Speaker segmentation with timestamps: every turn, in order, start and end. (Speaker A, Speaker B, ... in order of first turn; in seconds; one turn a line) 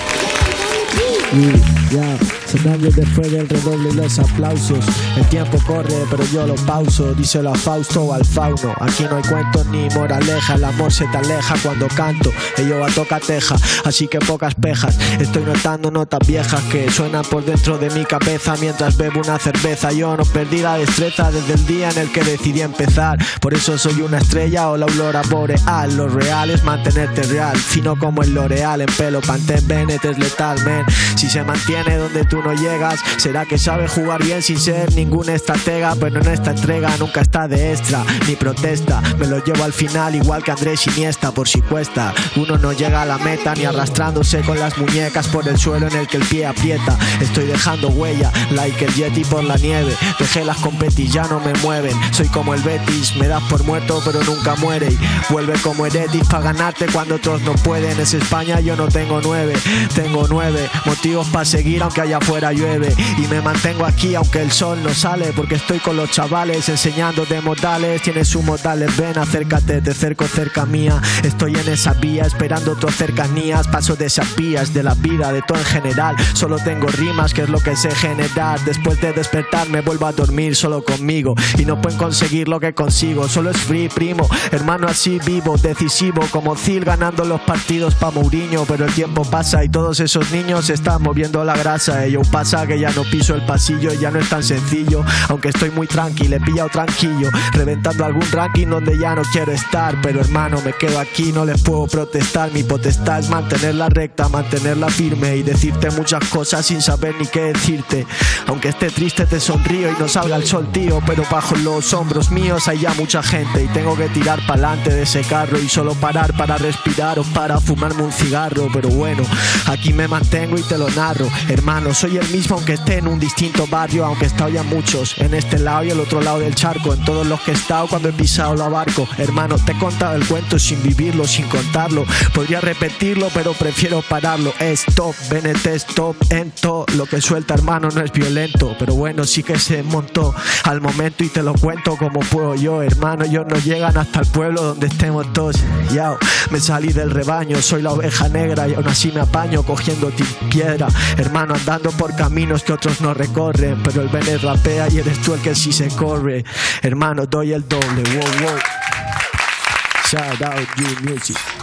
Speaker A: 1.3-158.7
Speaker A: 160.0-161.4